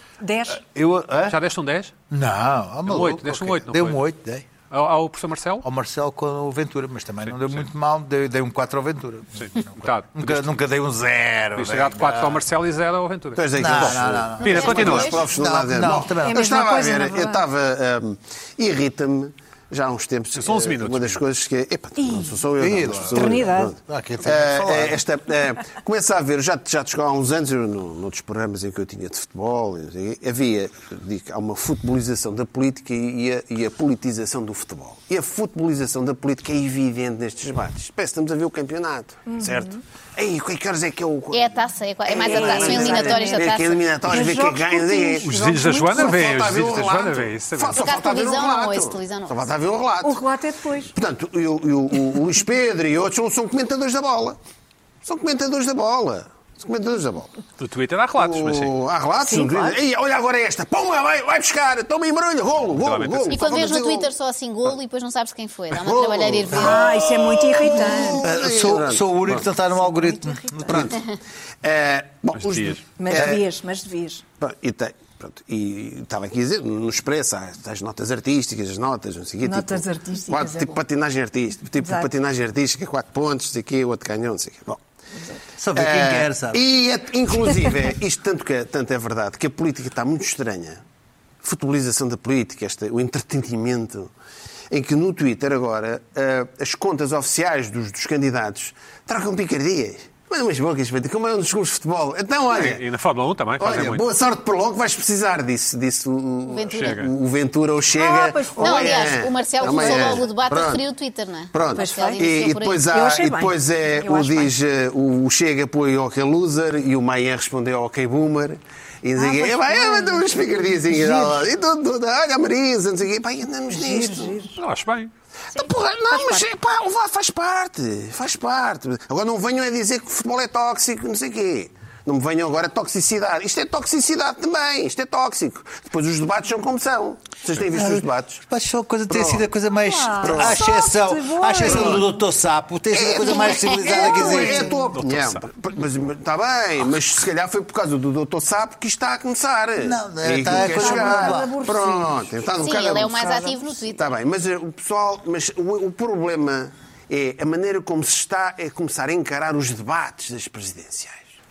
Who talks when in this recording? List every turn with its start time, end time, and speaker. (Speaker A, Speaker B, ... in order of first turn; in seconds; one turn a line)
Speaker A: 0.2-0.6
Speaker B: 0.5-1.4
Speaker C: 1.3-1.9
Speaker B: 2.1-4.5
Speaker C: 2.9-4.0
Speaker C: 4.7-5.6
Speaker B: 5.6-12.4
Speaker C: 7.2-7.7
Speaker C: 9.3-10.6
Speaker C: 11.6-15.2
Speaker D: 13.3-50.2
Speaker B: 13.5-16.4
Speaker E: 14.4-15.3
Speaker A: 16.2-17.4
Speaker C: 20.3-21.2
Speaker A: 22.0-22.4
Speaker B: 22.6-25.0
Speaker A: 23.1-23.7
Speaker A: 39.3-39.6
Speaker E: 41.3-43.8
Speaker A: 42.2-46.2
Speaker C: 45.2-47.8
Speaker E: 47.7-49.5
Speaker A: 50.0-50.9
Speaker D: 50.9-54.4
Speaker D: 55.0-57.3
Speaker C: 57.6-58.7
Speaker D: 58.2-64.1
Speaker A: 59.2-59.8
Speaker C: 62.7-63.5
Speaker E: 63.3-67.1
Speaker D: 65.7-69.5
Speaker A: 66.5-68.2
Speaker B: 68.2-71.0
Speaker A: 69.9-70.9
Speaker D: 70.7-71.1
Speaker D: 71.6-73.4
Speaker C: 72.3-72.8
Speaker A: 73.0-74.2
Speaker B: 73.1-73.4
Speaker D: 74.4-84.8
Speaker A: 79.4-80.8
Speaker A: 81.8-82.1
Speaker B: 85.6-86.6
Speaker D: 85.7-90.8
Speaker D: 91.4-94.1
Speaker D: 94.7-102.8
Speaker C: 102.5-104.0
Speaker D: 103.6-110.8
Speaker E: 106.5-107.0
Speaker C: 106.7-107.1
Speaker A: 107.9-110.3
Speaker E: 108.6-112.9
Speaker D: 111.5-124.5
Speaker A: 111.7-114.5
Speaker A: 119.2-121.4
Speaker A: 123.7-124.5
Speaker C: 124.5-125.1
Speaker D: 125.5-138.4
Speaker A: 125.5-126.4
Speaker B: 137.7-144.9
Speaker D: 139.1-139.5
Speaker A: 139.8-142.1
Speaker D: 140.2-140.6
Speaker D: 141.6-142.0
Speaker D: 142.9-153.3
Speaker A: 143.3-144.9
Speaker C: 144.9-145.5
Speaker B: 149.8-151.5
Speaker A: 150.7-152.5
Speaker E: 152.6-154.1
Speaker A: 153.0-153.6
Speaker D: 153.9-161.3